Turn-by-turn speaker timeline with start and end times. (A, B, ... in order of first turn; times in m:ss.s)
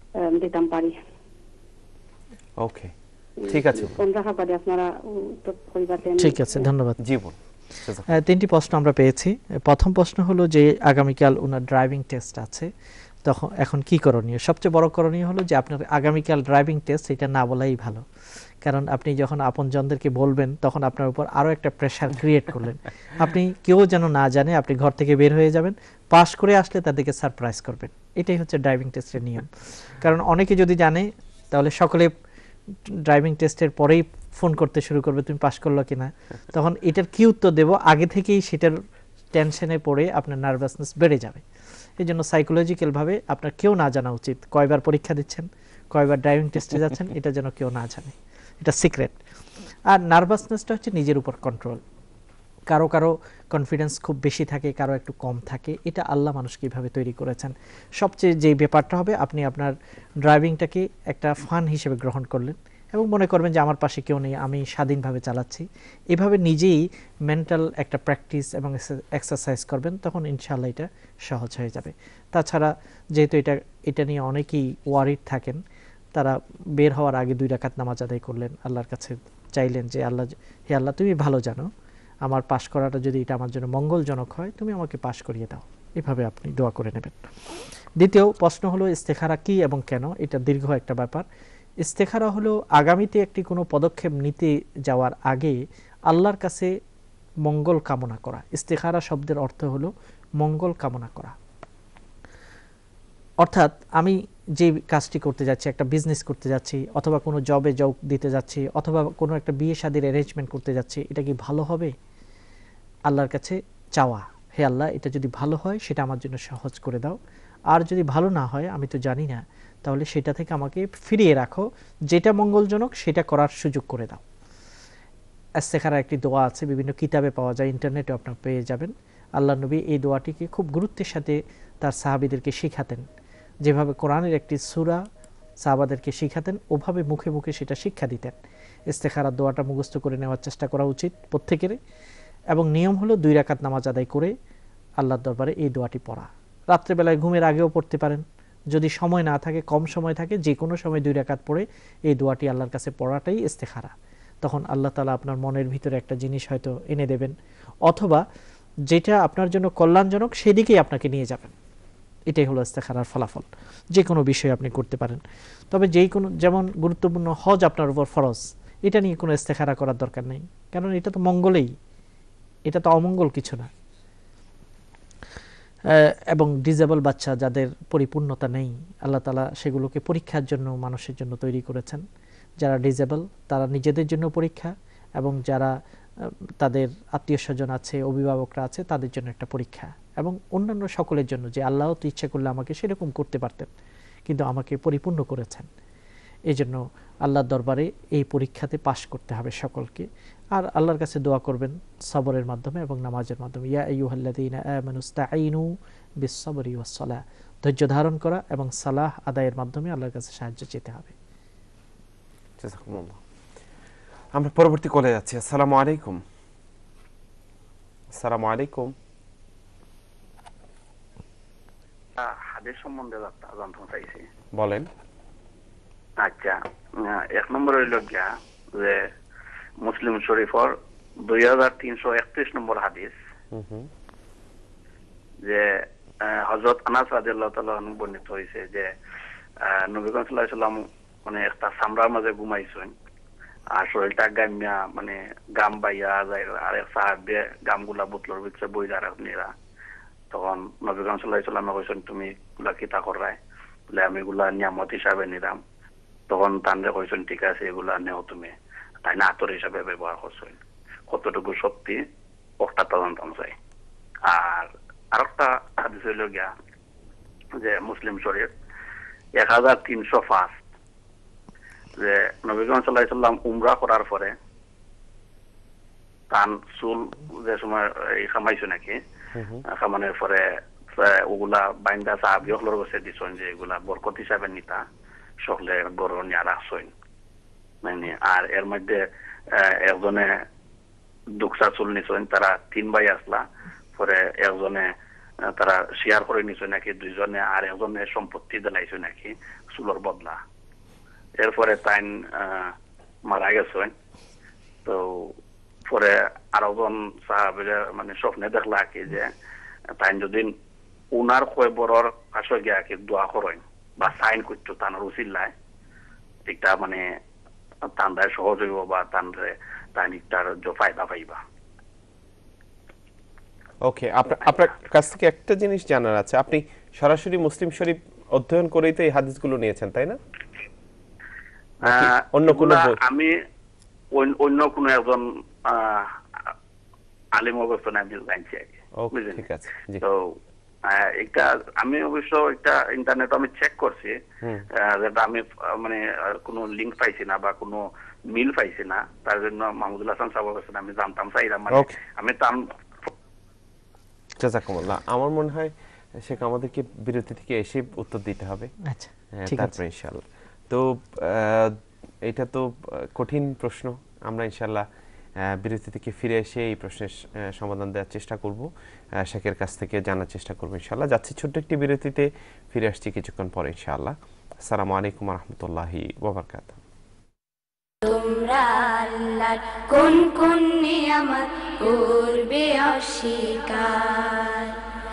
0:00.2-0:00.9 A
0:02.6-0:02.9 B
0:03.5-0:04.0 B
0:03.7-0:06.7 A
0:06.2-0:07.0 C
0:07.0-0:08.2 B
0:08.1-0:12.7 C
0:13.3-0:18.0 C
0:18.6-0:32.1 C
0:33.1-0:38.8 C
0:39.3-0:41.4 C
0:42.0-0:49.2 C
0:49.9-0:51.8 C
0:52.7-1:15.6 C
1:16.2-1:21.7 C
1:22.2-1:27.2 C
1:28.0-1:31.2 C
1:31.8-1:35.6 C
1:36.1-1:36.7 C
1:37.4-1:41.4 C
1:43.4-1:51.9 C
1:53.1-1:57.2 C
1:57.7-2:04.2 C
2:05.6-2:13.0 C
2:13.6-2:15.0 C
2:15.6-2:18.4 C
2:18.9-2:21.8 C
2:22.5-2:24.3 C
2:25.0-2:37.3 C
2:37.9-2:38.2 C
2:38.9-2:41.5 C
2:42.3-2:51.7 C
2:52.7-2:53.7 C
2:55.9-3:02.0 C
3:02.6-3:05.7 C
3:06.6-3:13.7 C
3:14.3-3:15.7 C
3:16.5-3:25.7 C
3:26.2-3:31.1 C
3:32.6-3:33.2 B
3:34.3-3:36.2 B
3:38.2-3:38.9 B
3:42.2-3:44.2 D
3:44.6-3:44.9 B
3:46.2-3:49.0 D
3:49.8-3:50.7 D
3:51.3-3:53.2 D
3:53.5-3:53.9 B
3:56.3-3:58.9 D
3:59.7-4:02.9 D
4:03.8-4:09.5 D
4:10.3-4:13.4 D
4:13.9-4:15.6 D
4:16.3-4:18.5 D
4:19.0-4:20.6 D
4:21.1-4:22.0 D
4:22.6-4:23.5 D
4:24.3-4:26.5 D
4:27.6-4:28.5 D
4:29.4-4:30.6 D
4:32.0-4:34.4 D
4:36.3-4:39.0 D
4:39.4-4:39.6 B
4:39.7-4:40.4 D
4:41.0-4:44.8 D
4:45.4-4:46.9 D
4:47.8-4:50.4 D
4:51.4-4:54.9 D
4:55.5-5:00.4 D
5:01.4-5:02.8 D
5:03.3-5:03.9 D
5:04.8-5:05.4 D
5:05.9-5:09.3 D
5:10.0-5:10.6 D
5:11.1-5:15.5 D
5:16.5-5:17.0 D
5:18.0-5:21.4 D
5:23.8-5:30.2 B
5:31.8-5:33.0 B
5:31.8-5:33.3 D
5:34.2-5:36.5 D
5:37.4-5:39.5 D
5:39.0-5:40.0 B
5:40.9-5:44.1 D
5:44.8-5:52.7 D
5:51.7-5:52.0 B
5:54.4-5:58.7 B
5:58.9-5:59.8 C
5:59.3-6:01.7 B
6:02.2-6:04.9 B
6:05.4-6:08.7 B
6:09.2-6:16.8 B
6:18.0-6:24.7 E